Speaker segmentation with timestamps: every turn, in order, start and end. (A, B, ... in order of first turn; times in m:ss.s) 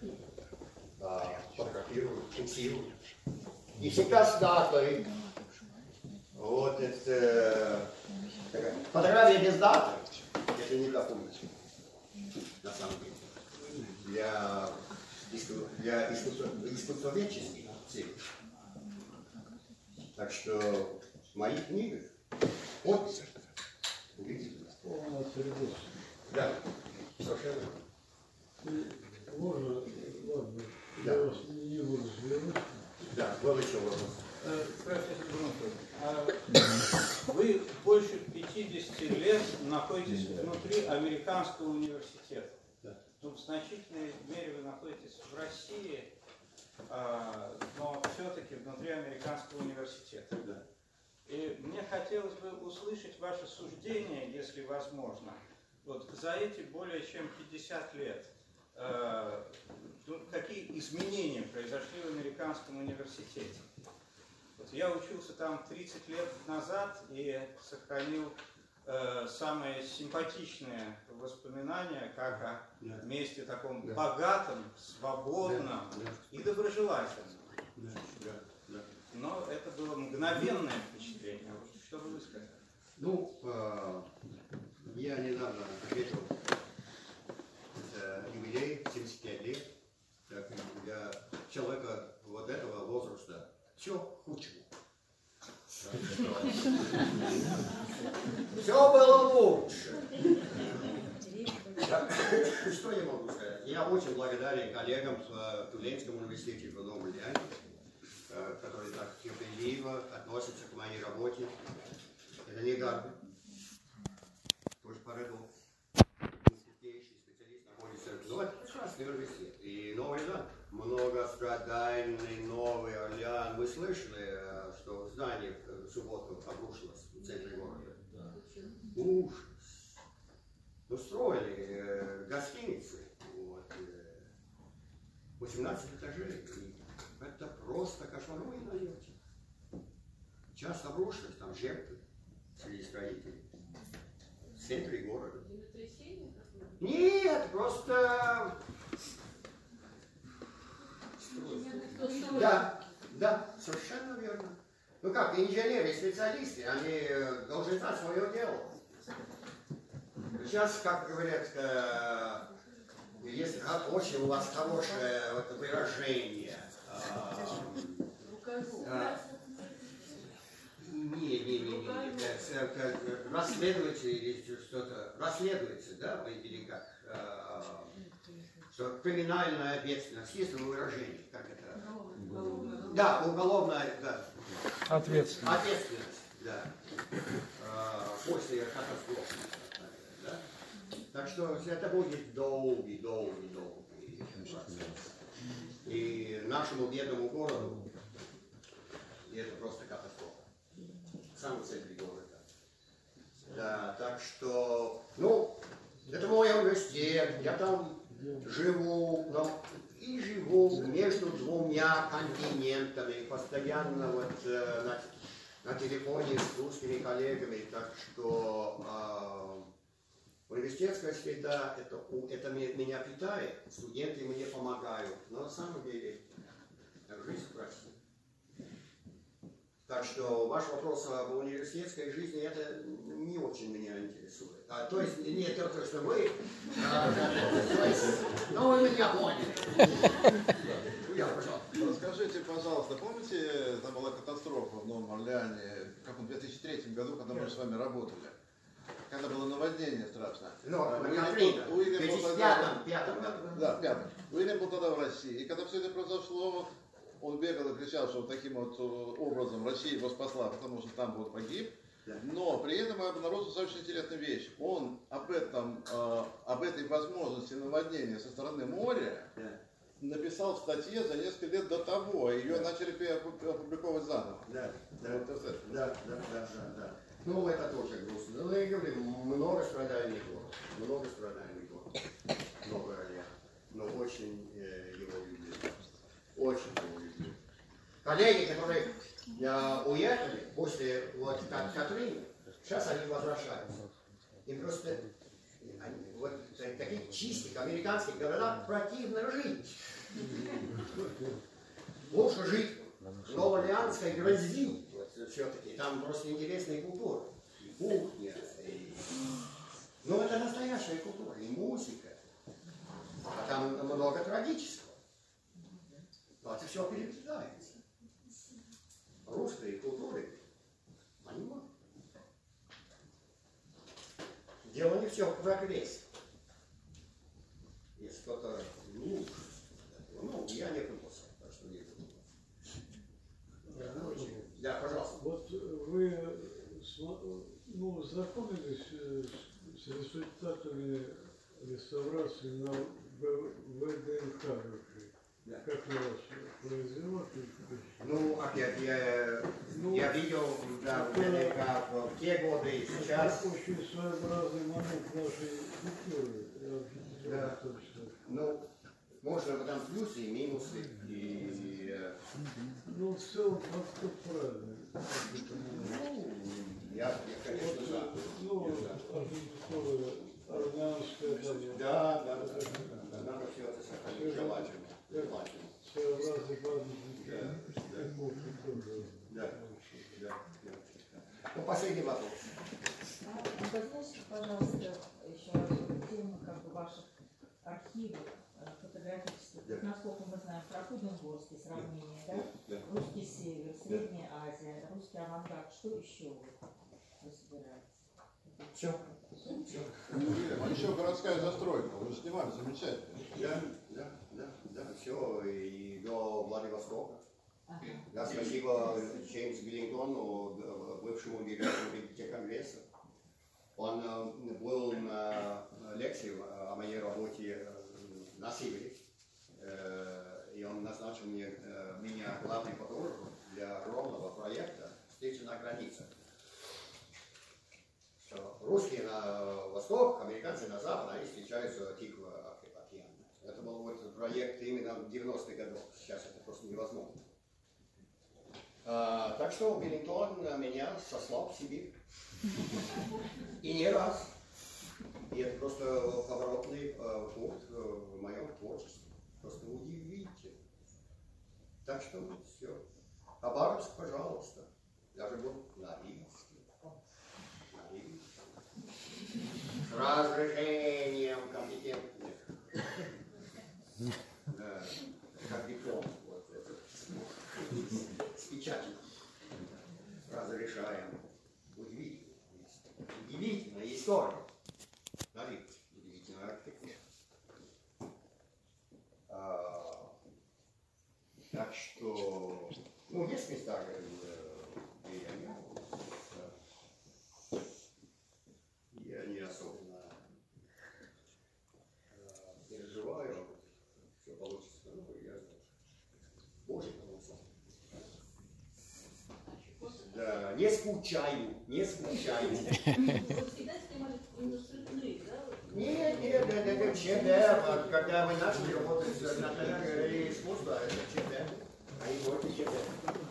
0:01.0-0:03.0 A
0:03.8-0:05.1 A
0:06.3-0:07.9 A
0:08.5-0:11.5 A
0:12.6-0:18.2 A
0:20.2-0:22.1 A
0:22.8-0:23.3 A
0:24.2-0:24.7 A
0:24.8-0:25.9 B
0:26.3-0:27.8 A
0:28.6-0:32.9 B
0:31.0-0:31.2 A
0:33.1-0:34.2 A
0:34.4-0:42.5 C
0:43.2-0:46.1 C
0:46.9-0:50.5 C
0:51.3-1:03.6 C
1:04.6-1:17.6 C
1:15.4-1:16.2 A
1:17.8-1:18.8 A
1:19.1-1:22.5 C
1:23.0-1:24.1 A
1:24.9-1:26.3 A
1:27.8-1:29.7 A
1:30.3-1:34.7 A
1:35.7-1:37.6 A
1:38.5-1:40.9 A
1:41.0-1:42.0 D
1:41.8-1:47.5 A
1:48.3-1:51.6 A
1:52.4-1:53.2 A
1:54.8-1:55.5 A
1:56.4-2:08.1 A
2:08.2-2:08.9 E
2:08.9-2:09.9 A
2:10.9-2:14.2 A
2:15.4-2:19.1 A
2:20.5-2:22.0 A
2:22.6-2:23.4 A
2:24.6-2:25.4 A
2:25.4-2:26.9 E
2:26.8-2:28.6 A
2:31.2-2:38.8 A
2:31.3-2:32.8 E
2:40.3-2:42.5 A
2:43.2-2:48.1 A
2:48.2-2:50.3 E
2:48.8-2:49.2 A
2:50.8-2:57.9 A
2:51.6-2:52.4 E
2:58.2-2:58.5 E
2:58.7-3:06.7 A
3:01.8-3:03.3 E
3:07.6-3:10.4 A
3:11.1-3:15.1 A
3:15.8-3:17.9 A
3:19.2-3:20.4 A
3:21.3-3:22.4 A
3:23.5-3:39.7 A
3:28.2-3:28.4 B
3:40.5-3:46.2 A
3:47.1-3:48.0 A
3:49.9-4:00.1 A
4:00.9-4:01.8 A
4:01.7-4:08.4 F
4:09.1-4:29.3 F
4:10.6-4:13.8 A
4:30.0-4:35.9 F
4:34.5-4:41.9 A
4:42.6-4:45.8 A
4:46.4-4:47.4 A
4:48.0-4:53.8 A
4:54.4-4:55.1 A
4:55.6-5:01.0 A
5:02.1-5:09.2 A
5:10.0-5:12.2 A
5:13.3-5:15.0 A
5:16.4-5:17.8 A
5:19.2-5:20.4 A
5:21.2-5:21.7 A
5:24.6-5:26.1 A
5:28.0-5:32.2 A
5:33.7-5:48.1 B
5:33.7-5:35.2 A
5:48.0-5:53.5 A
5:49.7-5:50.2 B
5:50.8-5:51.6 B
5:52.9-5:58.2 B
5:57.2-5:57.6 A
5:58.2-5:58.6 A
5:59.2-6:02.2 A
6:02.8-6:06.0 B
6:05.7-6:09.1 A
6:07.5-6:13.3 B
6:11.7-6:15.7 A
6:14.0-6:20.1 B
6:17.2-6:18.1 A
6:19.3-6:22.6 A
6:23.2-6:27.1 D
6:27.6-6:36.6 D
6:31.8-6:32.8 A
6:37.2-6:37.8 D
6:38.7-6:40.5 A
6:40.1-6:43.3 F
6:43.3-6:47.2 A
6:47.8-6:48.4 D
6:48.0-6:52.8 A
6:53.8-6:59.0 A
6:59.6-7:06.1 A
7:08.2-7:17.2 A
7:18.8-7:21.9 A
7:23.6-7:24.4 A
7:25.3-7:30.6 A
7:31.8-7:32.8 A
7:33.4-7:36.7 A
7:37.7-7:38.2 A
7:39.9-7:42.6 A
7:44.5-7:49.0 A
7:50.3-7:54.4 A
7:55.3-7:57.0 A
7:59.3-8:00.1 A
8:01.5-8:06.5 A
8:08.9-8:10.2 A
8:12.1-8:15.7 A
8:16.6-8:17.4 A
8:19.5-8:20.5 E
8:20.0-8:22.9 A
8:22.9-8:29.9 E
8:25.7-8:33.1 A